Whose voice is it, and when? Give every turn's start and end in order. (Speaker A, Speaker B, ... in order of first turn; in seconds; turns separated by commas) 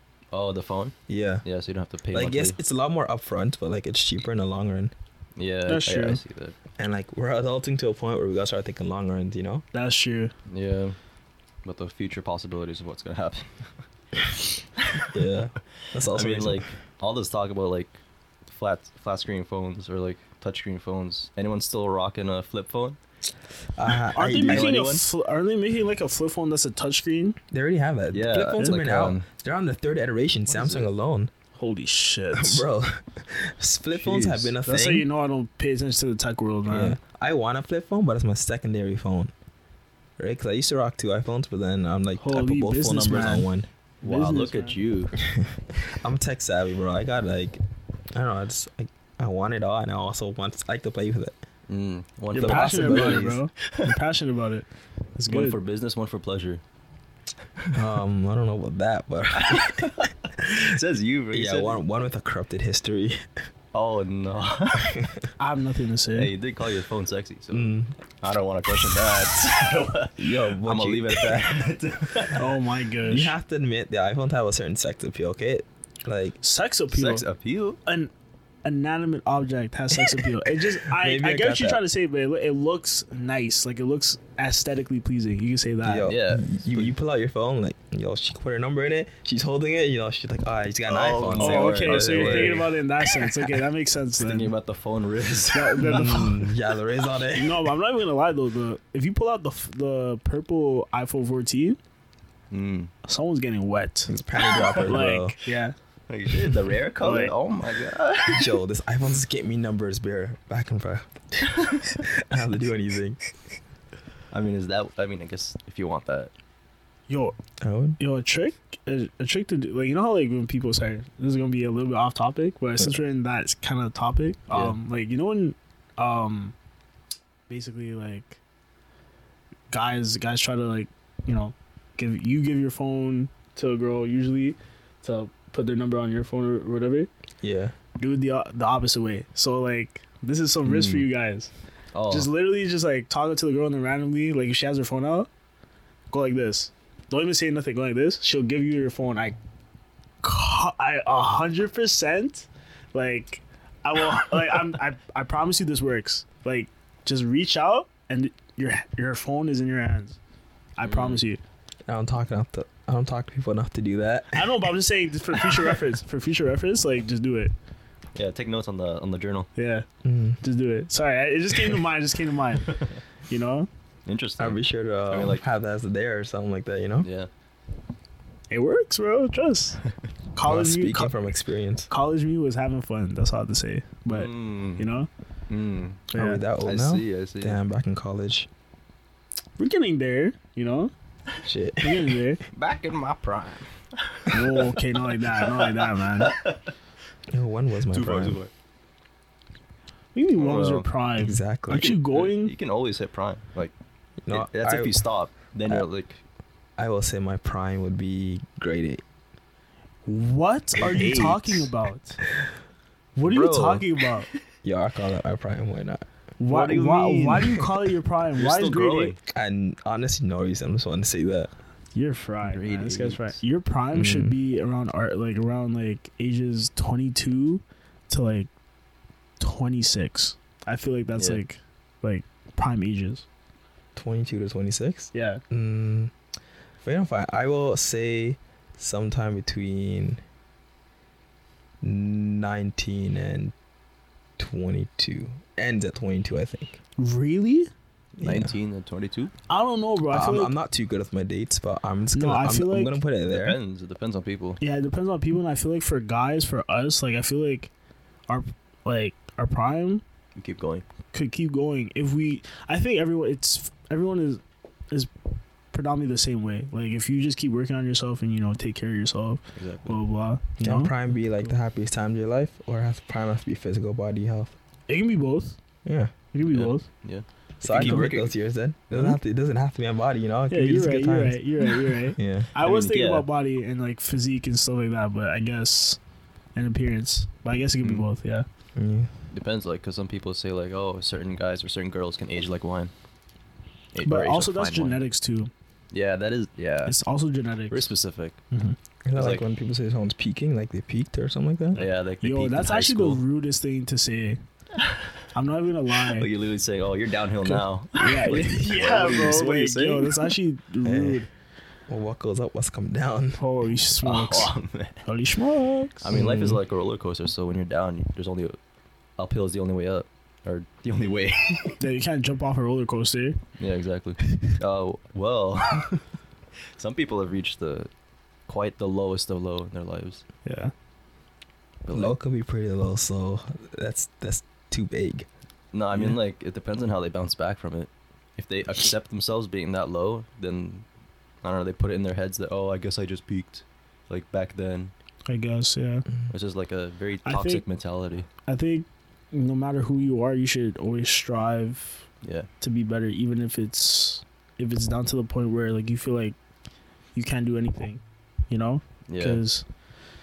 Speaker A: 0.3-2.6, Speaker B: 1.1-1.4, Speaker B: 2.1-4.9, Speaker A: 5.3-6.5, Speaker C: 5.7-6.2, Speaker B: 6.8-9.6, Speaker C: 9.7-10.3, Speaker A: 10.5-11.0, Speaker A: 11.6-13.7, Speaker A: 14.8-15.1, Speaker B: 15.1-16.7, Speaker A: 16.1-17.9, Speaker A: 18.4-23.0, Speaker B: 23.8-24.8, Speaker C: 24.1-27.4, Speaker A: 24.4-25.0, Speaker B: 27.5-31.3, Speaker A: 28.1-29.2, Speaker A: 30.5-30.9, Speaker C: 31.5-32.6, Speaker B: 32.3-35.1, Speaker A: 34.0-34.5, Speaker C: 34.6-37.0, Speaker B: 36.7-39.3, Speaker B: 40.2-43.7, Speaker C: 42.2-43.5, Speaker C: 44.0-44.8, Speaker A: 44.0-45.1, Speaker B: 45.2-47.6, Speaker B: 48.1-51.4, Speaker A: 51.7-53.9, Speaker B: 52.3-53.4, Speaker C: 52.3-55.6, Speaker A: 55.3-56.6, Speaker B: 57.7-60.7, Speaker A: 59.3-61.8, Speaker B: 61.3-63.2, Speaker A: 63.7-65.0, Speaker B: 64.8-65.3, Speaker C: 65.4-66.3, Speaker A: 66.1-72.5, Speaker B: 67.5-67.9, Speaker B: 70.2-71.5, Speaker C: 72.3-73.3, Speaker B: 73.0-76.4, Speaker C: 76.4-77.2, Speaker A: 76.9-77.8, Speaker C: 77.8-78.1, Speaker C: 78.6-86.1, Speaker B: 80.9-81.8, Speaker B: 85.8-92.7, Speaker A: 86.0-86.9, Speaker A: 90.8-92.7, Speaker C: 91.4-94.5, Speaker A: 94.2-96.2, Speaker C: 95.5-96.4, Speaker B: 95.8-97.6, Speaker C: 97.3-101.8, Speaker A: 102.5-102.9, Speaker C: 103.0-104.1, Speaker B: 104.1-105.4, Speaker A: 104.6-104.9, Speaker C: 104.8-105.7, Speaker A: 106.1-108.5, Speaker C: 107.0-107.3, Speaker B: 108.3-113.2, Speaker A: 114.3-116.3, Speaker C: 117.1-117.3, Speaker B: 117.6-118.0, Speaker C: 118.0-126.5, Speaker A: 124.5-124.8, Speaker C: 127.5-128.4, Speaker C: 129.7-137.1, Speaker B: 137.4-137.7, Speaker C: 138.0-141.5, Speaker B: 140.6-141.1, Speaker A: 141.9-142.3, Speaker C: 142.1-145.3, Speaker C: 146.1-149.4, Speaker C: 150.2-160.2, Speaker C: 160.8-161.4, Speaker A: 160.8-161.2, Speaker B: 161.9-164.6, Speaker C: 164.3-167.5, Speaker A: 168.1-169.5, Speaker C: 169.6-169.8, Speaker B: 170.0-170.4, Speaker C: 170.4-173.7, Speaker A: 174.1-175.4, Speaker B: 174.4-177.1, Speaker A: 177.0-177.3, Speaker C: 178.5-179.8, Speaker C: 180.3-181.2, Speaker B: 180.4-181.9, Speaker C: 181.9-185.1, Speaker A: 184.1-184.8, Speaker A: 185.5-186.1, Speaker B: 186.1-188.5, Speaker C: 186.1-186.4, Speaker A: 186.6-187.6, Speaker C: 189.6-190.9, Speaker B: 191.4-192.2, Speaker C: 191.8-192.4, Speaker A: 192.5-196.7, Speaker C: 194.3-196.3, Speaker B: 197.3-198.4, Speaker A: 197.9-198.5, Speaker C: 200.1-202.5, Speaker A: 200.3-200.9, Speaker B: 201.2-202.0, Speaker A: 201.7-203.7, Speaker B: 204.2-205.0, Speaker A: 204.3-206.2, Speaker B: 206.8-209.0, Speaker C: 210.1-212.2, Speaker A: 210.8-211.7, Speaker C: 213.2-214.3, Speaker A: 213.2-214.4, Speaker B: 214.6-216.1, Speaker C: 216.4-219.2, Speaker A: 216.5-217.6, Speaker A: 218.3-219.2, Speaker B: 219.3-221.5, Speaker C: 221.9-228.5, Speaker A: 222.4-223.4, Speaker B: 223.9-224.3, Speaker C: 229.4-233.2, Speaker A: 231.2-231.4, Speaker B: 233.9-236.1, Speaker C: 235.1-235.4, Speaker B: 236.8-240.2, Speaker B: 241.8-243.5, Speaker B: 244.4-246.8, Speaker C: 247.0-247.7, Speaker B: 248.2-248.5, Speaker A: 248.2-249.3, Speaker C: 249.5-250.5, Speaker B: 250.1-253.6, Speaker C: 252.1-252.9, Speaker A: 253.2-254.6, Speaker C: 254.6-257.7, Speaker C: 258.3-260.0, Speaker A: 260.3-260.8, Speaker C: 261.1-265.1, Speaker C: 265.7-270.9, Speaker A: 269.6-270.0, Speaker B: 270.6-274.5, Speaker C: 274.9-275.6, Speaker B: 275.8-276.1, Speaker C: 276.3-276.9, Speaker A: 276.4-278.3, Speaker B: 277.6-282.5, Speaker C: 277.7-278.1, Speaker C: 280.5-286.0, Speaker A: 282.6-283.3, Speaker C: 286.5-288.4, Speaker B: 288.8-289.1, Speaker A: 289.3-292.9, Speaker A: 293.9-295.0, Speaker C: 294.0-295.5, Speaker A: 295.9-296.9, Speaker C: 296.9-297.8, Speaker A: 297.7-298.4, Speaker B: 299.0-301.8, Speaker A: 299.1-299.4, Speaker C: 301.7-304.4, Speaker A: 301.8-303.2, Speaker A: 304.8-305.2, Speaker C: 305.3-306.3, Speaker A: 306.0-310.3, Speaker C: 307.4-311.3, Speaker B: 310.8-311.2, Speaker B: 311.9-313.4, Speaker C: 313.4-314.5, Speaker A: 314.0-315.0, Speaker C: 315.0-316.1, Speaker A: 316.0-318.6, Speaker B: 316.1-316.6, Speaker A: 319.2-321.8, Speaker C: 321.8-323.4, Speaker A: 323.6-326.0, Speaker A: 326.8-327.9, Speaker A: 328.5-330.2, Speaker C: 330.4-330.7, Speaker A: 331.8-332.1, Speaker B: 331.9-335.3, Speaker A: 335.7-340.9, Speaker A: 341.4-344.9, Speaker C: 345.3-346.1, Speaker A: 346.3-348.3, Speaker C: 347.2-347.6, Speaker C: 348.4-352.1, Speaker A: 352.2-352.5, Speaker C: 352.6-356.3, Speaker C: 357.1-359.6, Speaker A: 359.1-359.4